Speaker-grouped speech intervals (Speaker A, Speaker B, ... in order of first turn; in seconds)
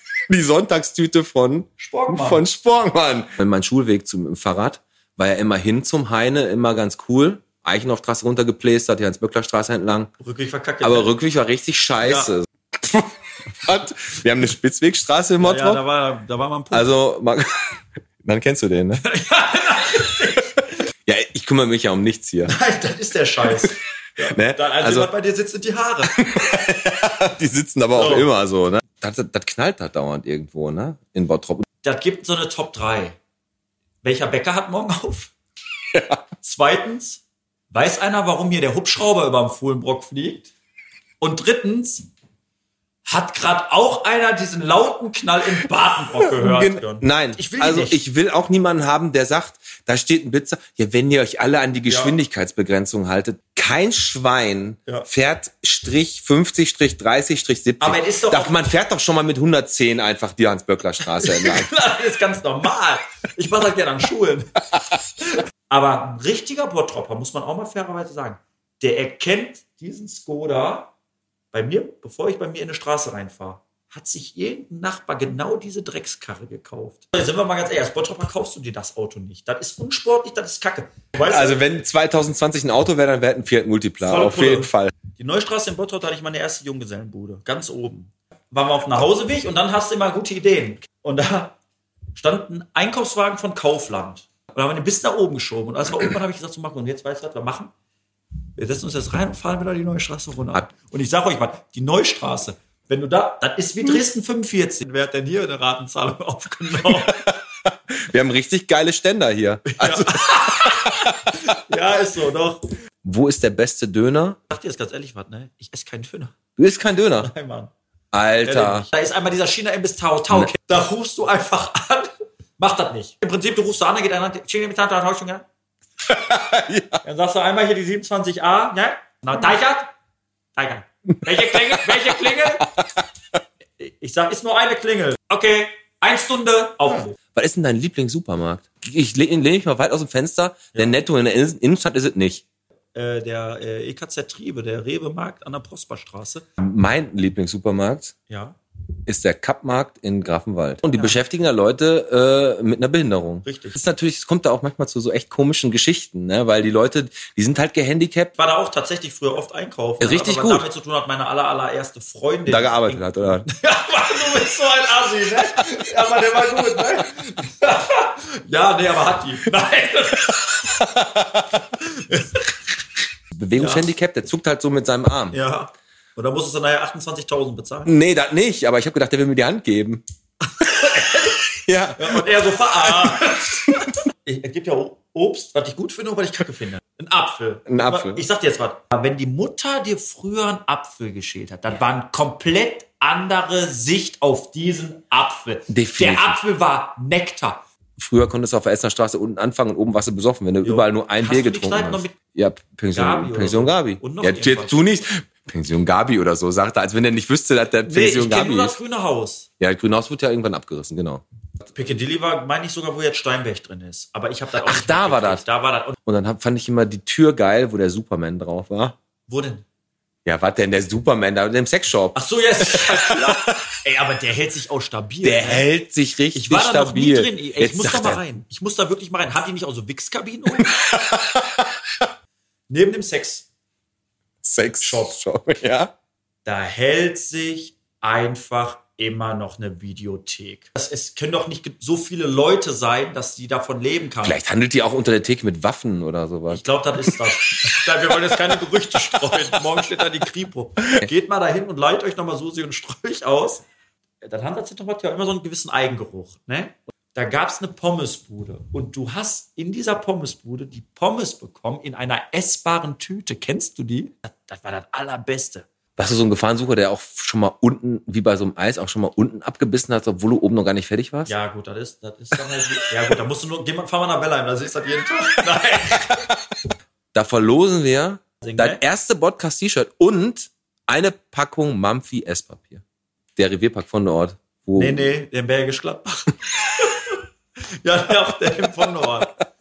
Speaker A: 0.3-10.1, 10.8-15.8, 16.7-19.0, 21.1-22.5, 24.2-25.1, 26.1-31.6, 46.3-61.7, 81.2-84.9, 107.1-111.4, 113.0-114.4, 116.6-117.3, 118.1-118.9, 126.0-127.0, 131.3-132.0, 137.3-142.4, 146.6-148.1, 149.1-158.3, 160.0-160.7, 162.5-163.5, 173.3-175.4, 177.8-180.0, 180.8-182.3, 182.8-183.4, 187.7-188.2, 195.7-196.4, 198.0-208.8, 209.6-211.2, 214.6-215.4, 216.0-219.0, 220.2-223.6, 225.2-228.2, 230.6-231.7, 234.4-235.9, 244.2-246.6, 266.0-271.3, 277.1-282.8, 283.4-285.1
Speaker B: 1.8-2.4, 10.2-11.1, 12.0-12.3, 15.4-16.9, 19.0-20.5, 22.4-26.1, 27.9-28.3, 31.8-33.2, 34.0-35.3, 36.4-40.5, 41.2-42.0, 43.0-48.0, 51.9-52.2, 57.8-58.6, 61.2-64.5, 65.2-70.9, 71.5-81.6, 84.0-91.5, 92.2-97.7, 98.5-107.2, 109.7-112.7, 114.5-116.3, 117.2-117.7, 118.4-125.5, 127.0-129.9, 130.6-132.7, 133.8-137.1, 142.9-146.5, 148.3-148.6, 150.9-151.2, 153.4-153.8, 158.3-170.4, 171.8-172.6, 173.6-173.9, 175.3-177.9, 180.6-181.3, 182.0-183.7, 184.2-197.6, 200.6-202.2, 202.9-204.8, 207.8-209.5, 211.7-215.9, 219.3-219.6, 222.1-225.7, 226.3-230.7, 232.7-233.5, 234.8-235.1, 236.4-244.4, 246.5-253.6, 254.2-265.7, 271.3-276.1, 278.4-278.8, 284.8-289.3